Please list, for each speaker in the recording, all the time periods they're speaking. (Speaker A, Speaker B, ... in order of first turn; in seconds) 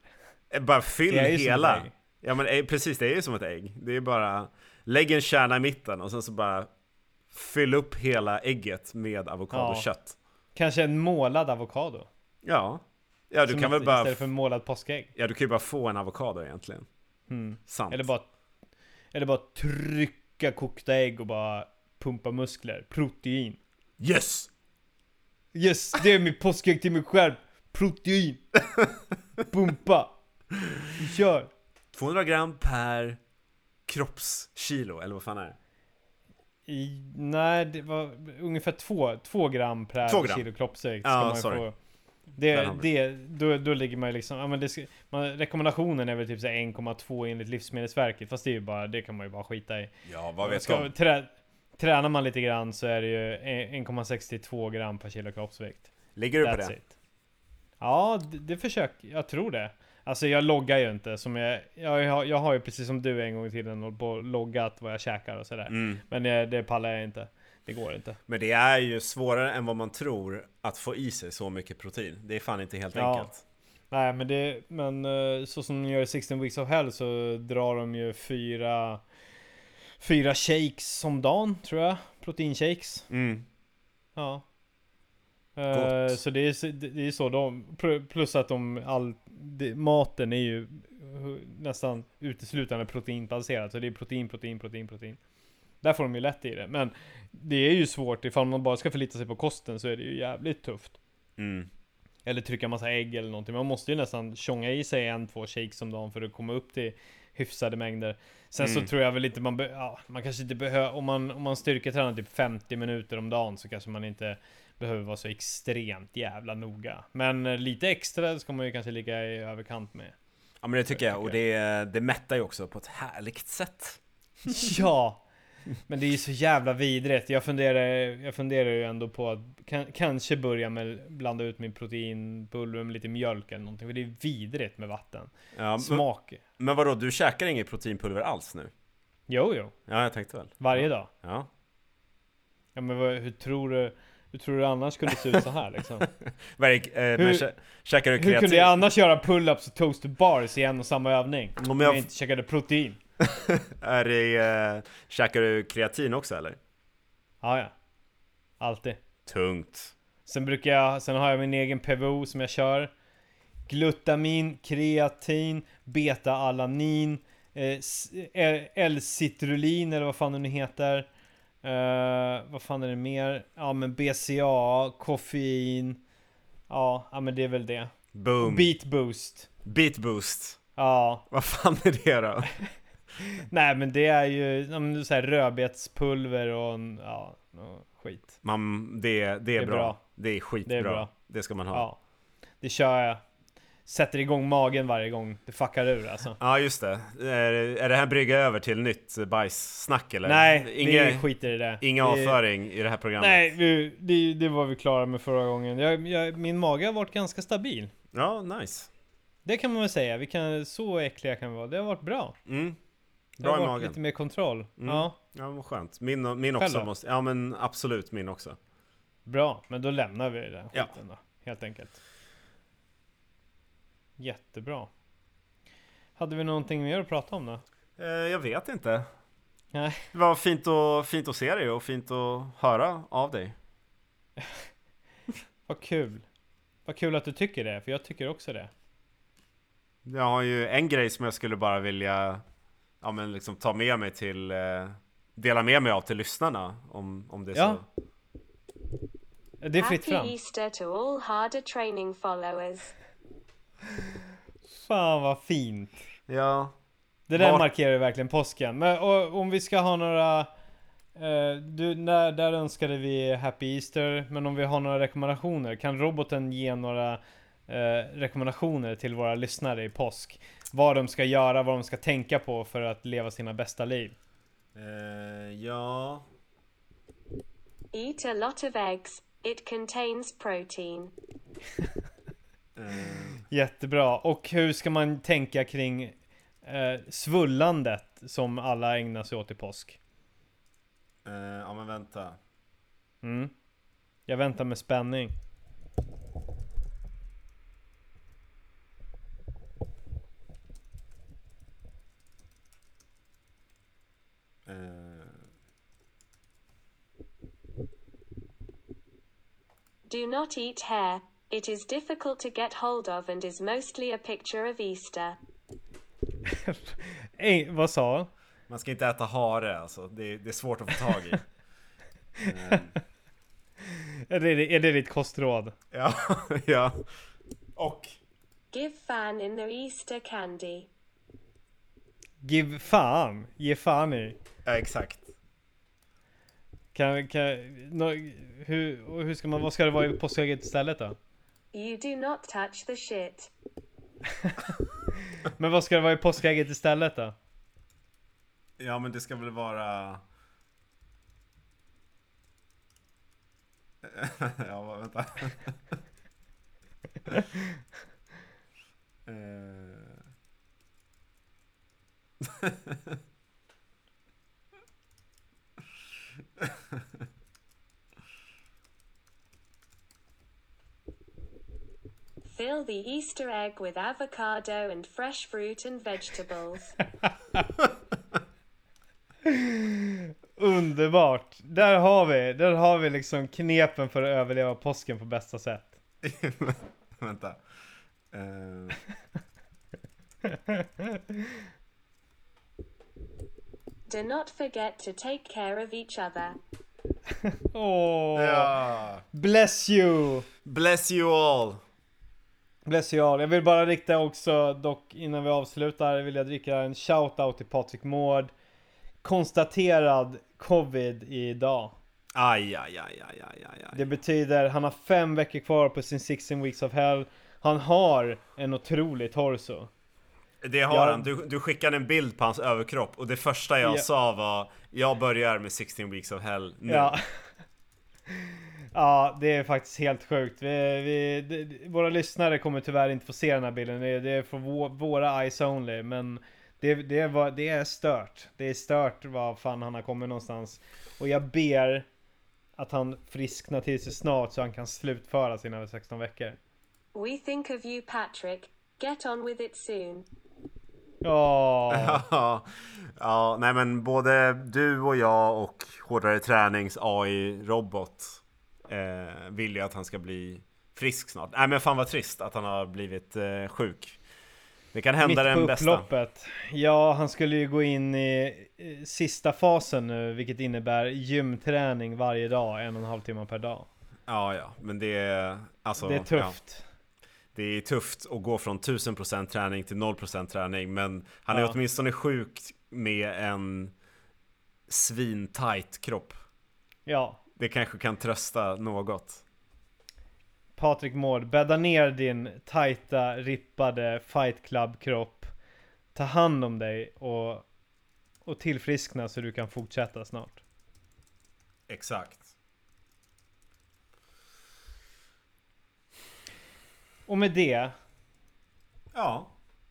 Speaker A: 0.5-6.7, 7.3-10.1, 12.4-14.2, 15.2-16.9, 17.7-18.1, 24.0-24.5, 31.9-33.2, 33.9-35.5, 40.0-40.5, 41.0-41.6, 42.5-42.9, 50.0-50.9, 56.1-56.8, 65.7-66.0, 68.3-73.4, 83.1-83.5, 85.7-86.2, 101.4-101.7, 108.6-108.9, 120.6-124.0, 135.5-136.0, 136.6-138.7, 139.9-141.5, 146.1-148.8, 151.6-152.1, 153.2-156.6, 159.2-159.9, 178.1-178.7, 179.6-180.6, 181.3-182.5, 188.4-191.8, 196.4-203.5, 208.1-208.9, 212.4-212.8, 213.4-214.0, 214.8-218.6, 228.0-229.1, 230.1-233.6, 240.0-242.4, 243.0-247.8, 256.3-256.7, 257.3-257.7, 274.7-276.2, 282.8-283.4, 291.2-292.4, 304.6-305.4, 318.7-321.4, 322.4-322.9, 325.9-327.0, 327.8-328.1, 334.6-335.2, 348.8-350.2, 354.0-355.7, 359.2-360.2, 362.4-363.2, 386.2-387.6, 388.3-389.0, 398.3-399.2, 400.6-401.8, 412.3-414.0, 420.6-427.1, 451.9-464.2, 464.9-466.1, 474.3-476.6, 477.5-483.9, 484.9-486.3, 487.6-489.4, 501.9-502.5, 509.1-509.5
Speaker B: 1.1-1.9, 9.5-9.9, 10.5-12.1, 13.4-15.1, 17.3-18.2, 19.1-23.6, 25.5-28.4, 29.5-30.1, 30.9-31.5, 36.7-41.7, 42.4-56.9, 57.8-68.2, 72.9-73.3, 73.9-79.0, 80.0-83.1, 84.2-84.4, 85.5-95.2, 95.8-101.0, 102.2-120.1, 120.9-121.4, 124.5-125.2, 125.9-136.4, 139.3-139.7, 140.6-141.1, 142.7-146.1, 147.2-147.4, 148.2-153.0, 157.4-157.7, 158.6-159.0, 160.2-162.9, 163.7-171.1, 171.6-176.0, 176.7-179.5, 180.8-181.3, 183.2-188.4, 189.6-190.0, 190.6-191.1, 191.7-192.0, 192.6-193.2, 193.8-196.4, 200.2-202.4, 203.2-207.9, 209.4-212.4, 213.4-215.2, 216.6-216.9, 219.2-222.0, 224.2-224.9, 226.2-227.6, 229.7-230.0, 235.7-236.2, 236.8-238.7, 247.5-247.8, 249.6-250.3, 254.7-256.0, 257.3-260.5, 261.1-274.1, 283.5-286.1, 286.6-290.0, 293.2-293.5, 294.3-295.3, 316.4-318.3, 322.4-322.7, 323.8-325.8, 332.4-334.4, 336.9-341.1, 344.4-347.3, 379.4-386.0, 390.4-391.6, 397.4-398.7, 399.3-400.5, 402.8-408.5, 409.2-411.9, 413.9-419.9, 420.9-421.2, 426.9-427.2, 428.3-442.1, 442.8-446.6, 451.2-452.2, 465.2-473.9, 476.0-476.8, 481.5-481.8, 487.1-487.4, 490.8-495.5, 496.1-497.6, 498.4-500.6, 507.3-507.9
Speaker C: 249.8-252.9, 277.9-281.1, 310.1-315.4, 328.7-330.9, 341.7-343.5, 372.5-376.9, 394.1-396.6, 447.1-450.2